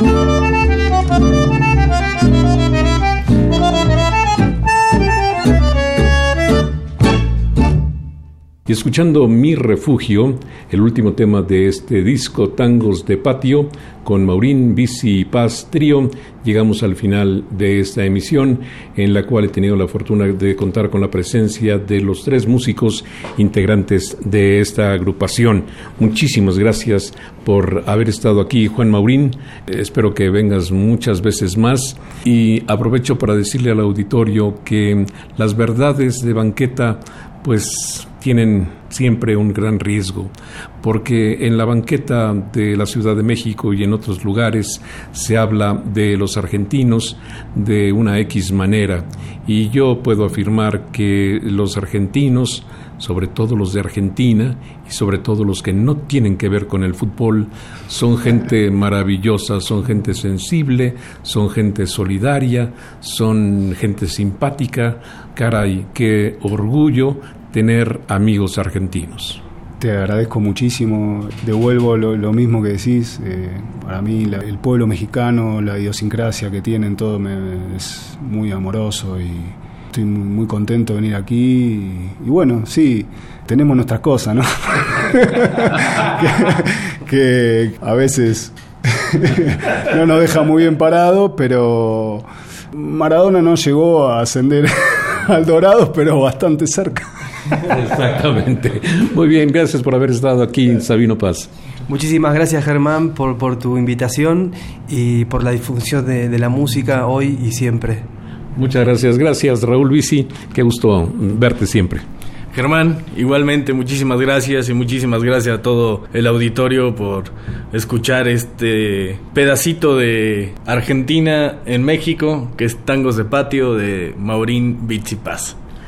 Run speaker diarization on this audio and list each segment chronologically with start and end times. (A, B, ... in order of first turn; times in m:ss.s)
0:08.7-1:09.4 A
1:09.8-1:37.5 B
1:37.6-1:41.5 A
1:41.9-1:48.1 C
1:48.6-1:52.0 A
1:52.5-2:05.6 D